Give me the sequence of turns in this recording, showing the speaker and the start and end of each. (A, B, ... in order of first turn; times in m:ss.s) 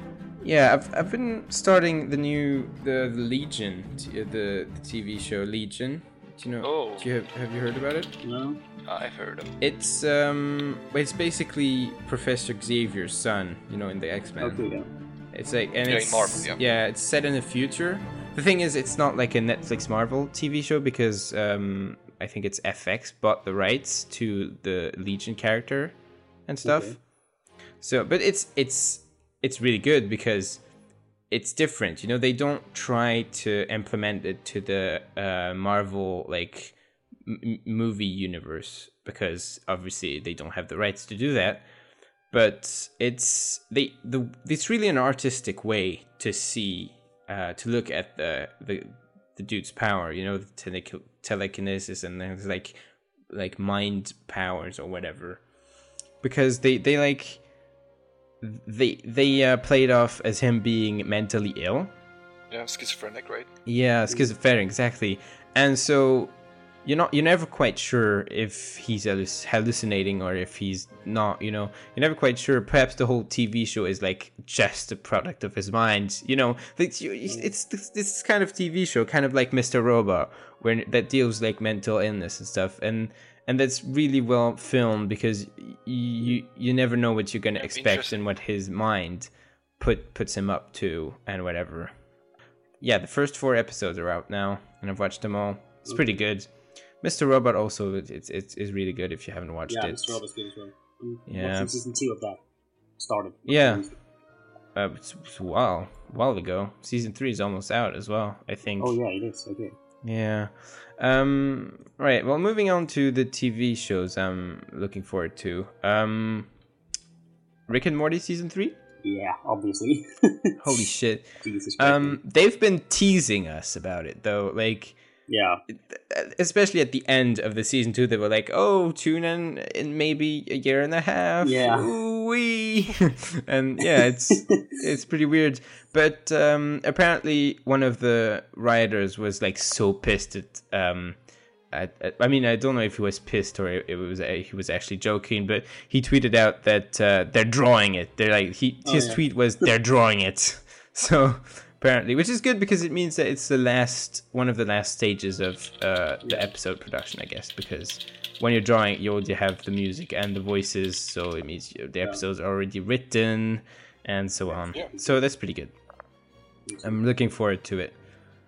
0:00.4-0:08.2 A
0:06.6-0:07.1 B
0:08.2-0:08.6 C
0:08.9-0:09.5 B
0:09.6-0:14.6 A
0:14.4-0:14.9 C
0:15.3-0:25.9 A
0:15.9-0:16.6 B
0:26.5-0:27.0 A
0:26.6-0:27.0 C
0:27.8-0:30.6 A
0:31.3-0:41.6 A
0:42.3-0:52.8 A
0:53.3-0:55.4 A
0:56.2-0:57.4 A
0:58.4-1:01.9 A
1:02.5-1:03.5 B
1:03.6-1:06.3 A
1:06.8-1:31.9 A
1:17.2-1:17.5 C
1:27.6-1:28.2 B
1:32.8-1:36.5 A
1:35.8-1:36.2 C
1:37.0-1:40.2 A
1:39.7-1:42.4 C
1:41.3-1:41.7 A
1:43.0-1:44.0 C
1:43.4-1:43.8 A
1:44.7-1:48.9 A
1:48.8-1:49.8 C
1:50.0-1:56.5 A
1:57.7-1:58.8 A
1:59.0-2:00.8 C
2:00.6-2:05.0 A
2:01.4-2:02.2 C
2:05.3-2:05.6 C
2:05.7-2:21.2 A
2:11.4-2:11.9 C
2:14.3-2:14.7 C
2:21.7-2:45.7 A
2:28.8-2:29.2 C
2:36.2-2:36.5 C
2:44.9-2:45.2 C
2:46.6-2:47.0 C
2:46.8-2:47.9 A